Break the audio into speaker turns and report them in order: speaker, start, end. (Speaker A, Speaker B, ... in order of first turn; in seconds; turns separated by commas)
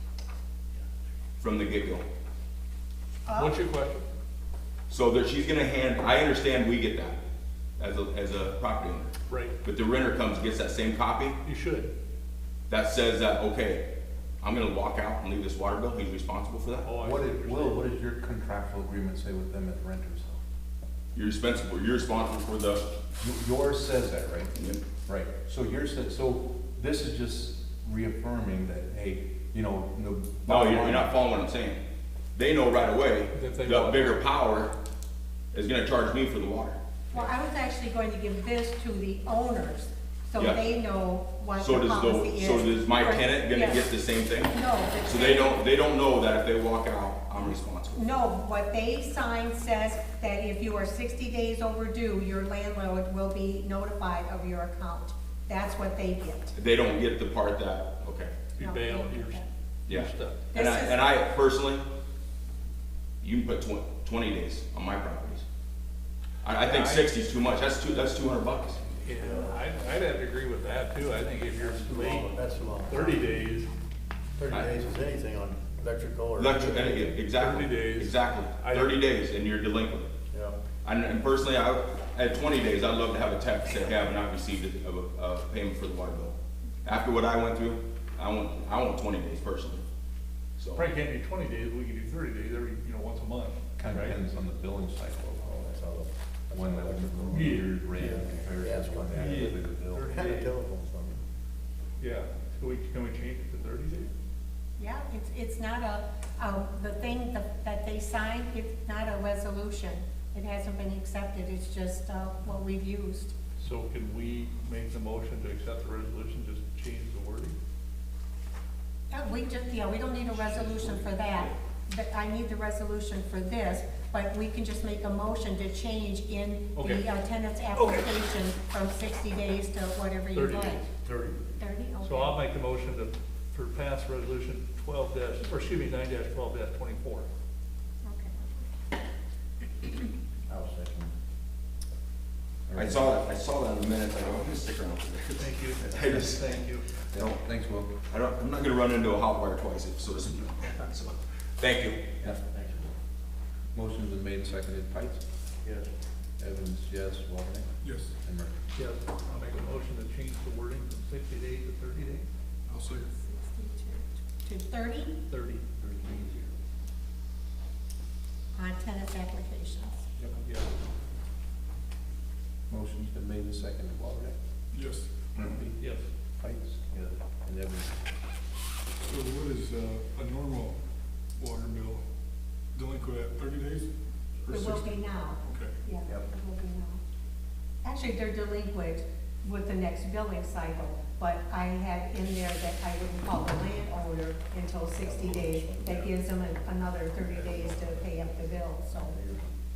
Speaker A: 1.4-2.0, Speaker B: 3.2-3.6, Speaker C: 3.3-4.0, Speaker A: 4.9-7.2, Speaker A: 7.8-9.1, Speaker C: 9.3-9.6, Speaker A: 9.6-11.4, Speaker C: 11.4-11.9, Speaker A: 12.7-13.9, Speaker A: 14.4-16.9, Speaker C: 16.8-17.8, Speaker D: 17.0-20.3, Speaker A: 21.1-22.9, Speaker D: 23.2-31.1, Speaker A: 24.5-24.8, Speaker A: 30.5-31.8, Speaker A: 32.3-34.7, Speaker C: 33.3-34.2, Speaker A: 35.5-36.8, Speaker B: 37.1-43.9, Speaker A: 41.6-48.0, Speaker B: 44.5-45.6, Speaker B: 47.9-56.5, Speaker A: 56.5-58.5, Speaker C: 58.5-60.4, Speaker B: 58.6-59.5, Speaker A: 59.9-61.9, Speaker B: 60.5-61.0, Speaker A: 63.2-65.4, Speaker A: 66.4-68.9, Speaker C: 66.5-67.1, Speaker C: 69.0-72.3, Speaker E: 69.1-69.7, Speaker E: 71.5-73.3, Speaker C: 72.9-73.7, Speaker E: 74.3-76.7, Speaker A: 74.5-74.8, Speaker A: 76.4-80.1, Speaker C: 76.6-79.0, Speaker E: 80.3-80.6, Speaker A: 80.8-89.8, Speaker A: 90.6-90.9, Speaker C: 90.7-94.2, Speaker D: 93.8-95.7, Speaker E: 95.6-101.2, Speaker D: 96.5-100.2, Speaker C: 97.3-98.2, Speaker C: 99.1-100.5, Speaker C: 102.0-104.1, Speaker B: 104.8-113.3, Speaker C: 113.6-117.5, Speaker B: 119.1-130.8, Speaker C: 126.8-127.1, Speaker C: 127.7-128.2, Speaker C: 130.3-130.8, Speaker E: 130.8-131.5, Speaker B: 131.6-132.4, Speaker C: 132.0-137.3, Speaker B: 138.0-138.7, Speaker E: 140.5-141.1, Speaker D: 142.7-143.2, Speaker A: 142.7-146.6, Speaker C: 145.4-146.8, Speaker D: 147.1-148.0, Speaker A: 148.1-152.0, Speaker E: 152.4-152.9, Speaker D: 153.7-155.2, Speaker E: 155.6-155.9, Speaker D: 156.4-158.6, Speaker C: 158.7-162.3, Speaker F: 162.7-163.0, Speaker B: 163.1-165.1, Speaker C: 165.3-165.6, Speaker E: 165.8-166.4, Speaker B: 168.5-170.1, Speaker C: 170.4-170.8, Speaker D: 172.7-174.3, Speaker F: 174.7-175.0, Speaker D: 175.3-177.9, Speaker C: 175.8-176.1, Speaker F: 179.2-180.8, Speaker F: 181.4-182.0, Speaker F: 182.7-183.9, Speaker F: 184.5-184.9, Speaker B: 184.5-187.0, Speaker B: 187.8-199.2, Speaker E: 195.0-196.1, Speaker E: 197.2-198.2, Speaker E: 199.0-199.5